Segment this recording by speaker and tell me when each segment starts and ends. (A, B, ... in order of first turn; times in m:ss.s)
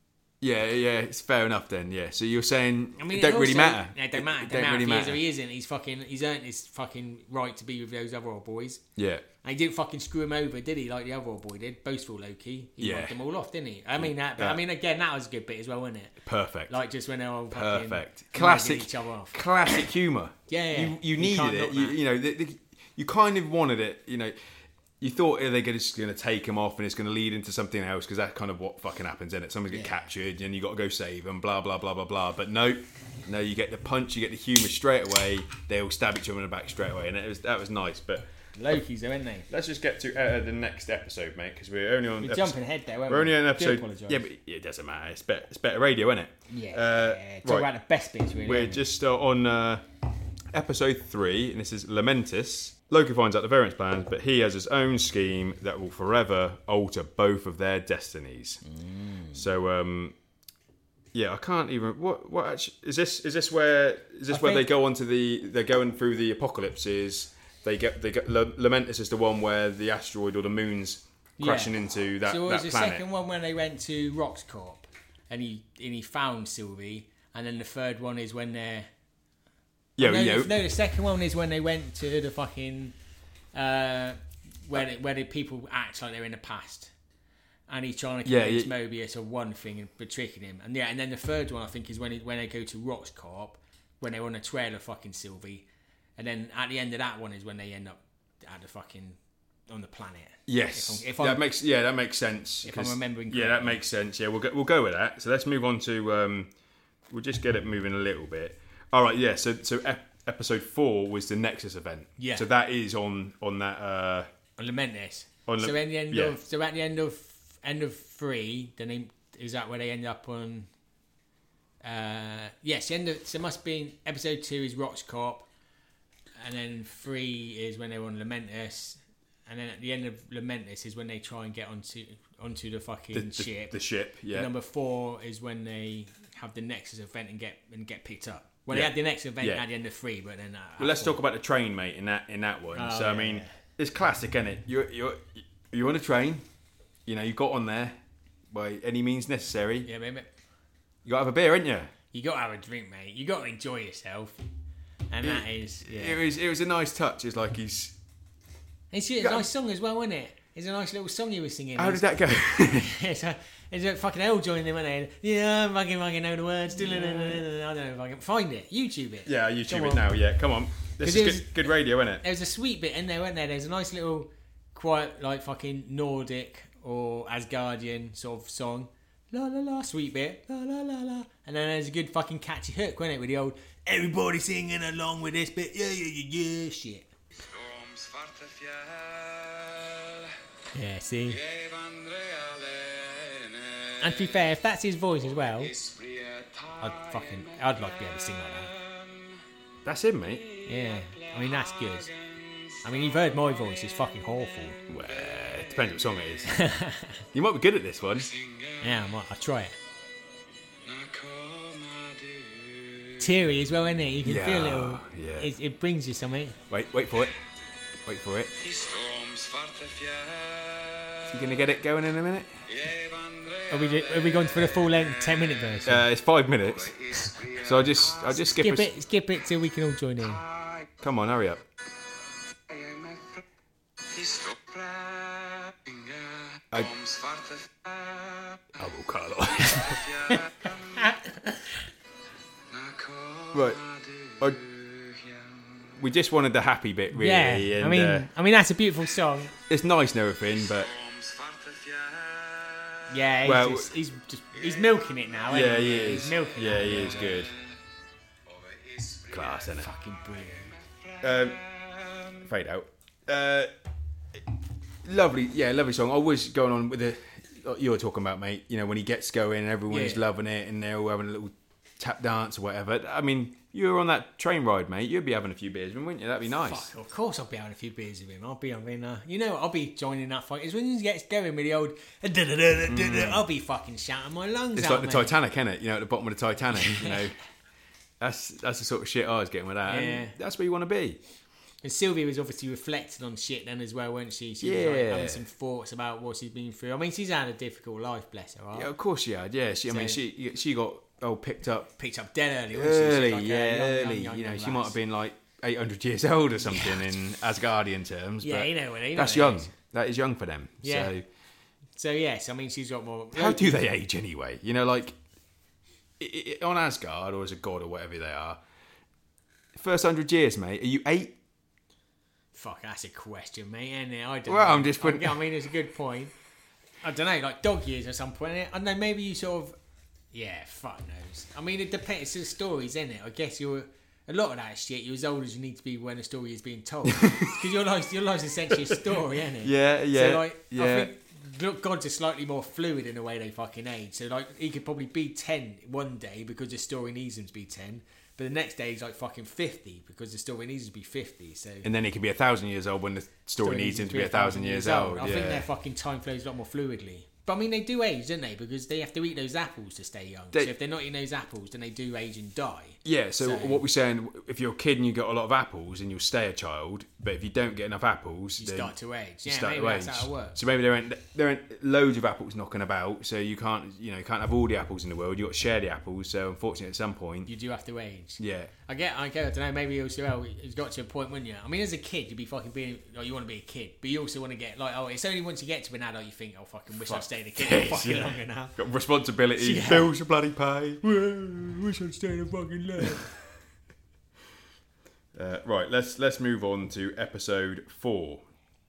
0:00.4-0:05.2 A
0:03.0-0:08.8 B
0:09.0-0:09.2 A
0:09.4-0:19.4 B
0:12.8-0:13.2 A
0:14.0-0:14.6 A
0:16.2-0:16.7 A
0:17.5-0:24.4 A
0:20.5-0:22.0 B
0:25.0-0:38.3 A
0:38.6-0:39.5 B
0:39.5-0:47.7 A
0:42.2-0:44.2 B
0:46.5-0:48.9 B
0:48.4-0:49.8 A
0:50.5-0:58.6 A
0:58.6-0:59.4 B
0:59.3-1:00.2 A
1:01.1-1:13.0 A
1:04.3-1:04.7 B
1:11.4-1:18.9 B
1:20.0-1:20.6 A
1:20.0-1:23.0 B
1:23.5-1:26.9 B
1:27.7-1:35.7 B
1:28.2-1:28.7 A
1:36.2-1:39.2 B
1:39.7-1:41.4 B
1:40.5-1:46.5 A
1:42.6-1:43.8 B
1:47.1-1:54.3 A
1:52.2-1:52.5 B
1:54.6-2:00.7 B
1:55.5-1:56.4 A
2:01.8-2:05.5 B
2:06.4-2:13.8 B
2:13.1-2:14.5 A
2:14.3-2:21.2 B
2:18.7-2:19.6 A
2:20.8-2:26.4 A
2:22.7-2:23.5 B
2:27.1-2:28.0 A
2:28.5-2:29.9 A
2:29.8-2:30.3 B
2:31.0-2:31.9 A
2:32.1-2:34.4 B
2:35.1-2:36.2 B
2:35.2-2:38.0 A
2:38.9-2:50.0 B
2:39.2-2:39.5 A
2:41.8-2:43.0 A
2:46.8-2:47.4 A
2:49.3-2:52.2 A
2:51.0-3:07.1 B
3:07.4-3:10.3 C
3:10.7-3:11.4 B
3:11.3-3:14.0 C
3:14.0-3:15.7 B
3:15.6-3:17.5 C
3:16.8-3:18.7 B
3:18.8-3:19.4 C
3:19.8-3:20.5 A
3:20.7-3:22.1 B
3:22.8-3:24.8 B
3:24.9-3:26.5 A
3:26.5-3:27.2 B
3:27.3-3:28.4 A
3:28.4-3:28.7 C
3:28.8-3:29.8 B
3:30.9-3:32.8 C
3:33.2-3:36.6 B
3:34.2-3:35.5 A
3:36.7-3:37.4 A
3:38.0-3:38.7 A
3:38.6-3:41.2 C
3:41.3-3:42.6 A
3:42.7-3:44.4 C
3:43.7-3:46.1 B
3:45.9-3:47.0 A
3:46.9-3:48.3 C
3:47.5-3:48.9 A
3:48.3-3:50.4 B
3:50.5-3:50.8 C
3:51.0-3:51.6 A
3:52.7-3:53.4 C
3:54.1-3:58.6 C
3:58.8-4:00.1 A
3:59.9-4:01.1 C
4:00.3-4:01.4 B
4:02.7-4:05.9 C
4:03.5-4:03.8 A
4:06.0-4:08.3 A
4:07.1-4:09.5 B
4:09.7-4:10.9 A
4:10.8-4:13.0 C
4:13.1-4:17.5 B
4:13.4-4:13.9 A
4:15.5-4:17.5 A
4:18.5-4:19.8 C
4:19.3-4:19.9 A
4:19.8-4:20.8 B
4:20.8-4:22.3 C
4:21.2-4:21.6 A
4:22.3-4:23.7 A
4:25.0-4:36.9 A
4:29.9-4:30.2 B
4:36.5-4:45.4 B
4:42.9-4:43.4 A
4:44.8-4:47.4 A
4:46.8-4:47.2 B
4:48.2-4:51.2 A
4:49.9-4:50.4 B
4:51.8-4:58.9 B
4:54.6-4:55.4 A
4:58.7-5:01.9 A
4:59.9-5:00.2 B
5:02.0-5:05.0 B
5:02.7-5:11.2 A
5:06.6-5:07.1 B
5:08.4-5:09.7 B
5:10.8-5:11.1 B
5:12.0-5:13.8 B
5:13.3-5:15.2 A
5:16.2-5:18.6 A
5:19.7-5:21.4 A
5:22.5-5:26.3 B
5:24.5-5:25.4 A
5:27.0-5:29.8 B
5:30.3-5:51.9 B
5:38.9-5:41.1 A
5:51.8-5:55.7 A
5:53.6-6:03.8 B
6:03.0-6:17.5 A
6:08.6-6:10.6 B
6:17.5-6:28.8 B
6:18.4-6:18.7 A
6:27.0-6:31.0 A
6:29.6-6:30.1 B
6:31.0-6:33.3 B
6:35.4-6:38.4 A